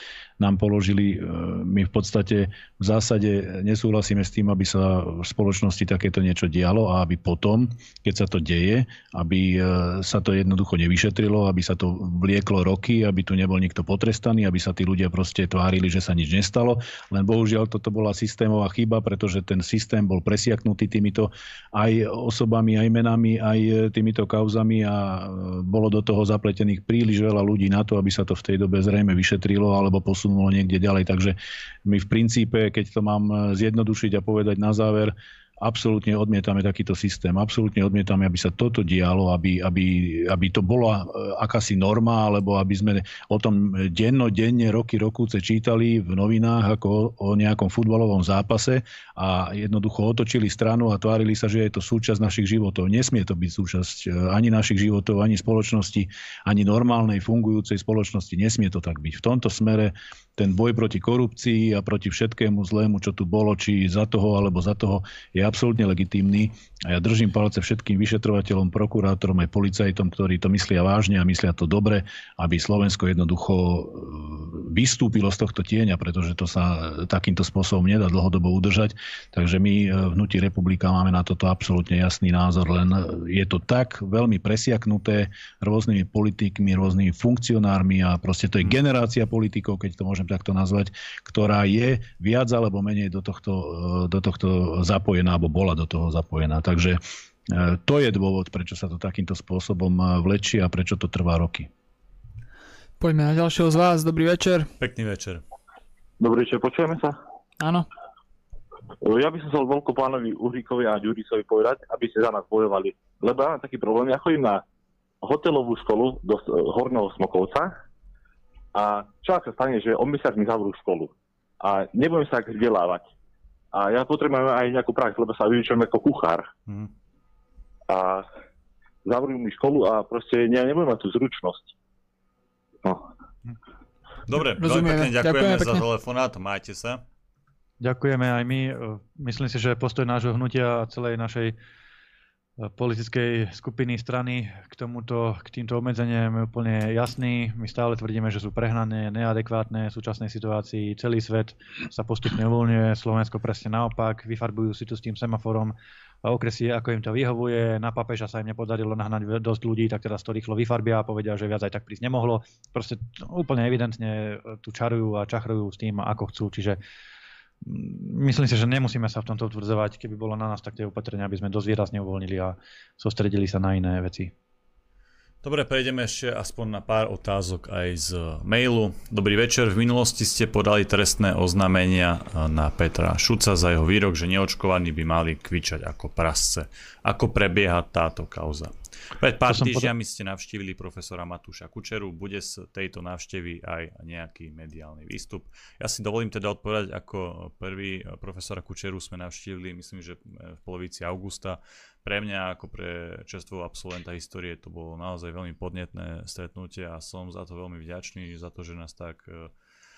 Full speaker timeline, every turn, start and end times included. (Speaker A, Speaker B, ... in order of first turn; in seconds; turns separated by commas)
Speaker A: 0.4-101.7, Speaker B: 103.0-104.7, Speaker C: 104.8-105.4, Speaker D: 106.2-107.2, Speaker B: 107.6-107.9, Speaker D: 109.0-114.6, Speaker D: 115.2-117.7, Speaker D: 118.7-123.0, Speaker D: 123.7-126.5, Speaker D: 127.9-128.2, Speaker D: 129.0-131.7, Speaker C: 134.3-137.0, Speaker B: 134.6-135.8, Speaker E: 137.8-141.6, Speaker E: 142.6-166.8, Speaker E: 167.6-174.3, Speaker C: 175.4-209.5, Speaker E: 189.5-189.9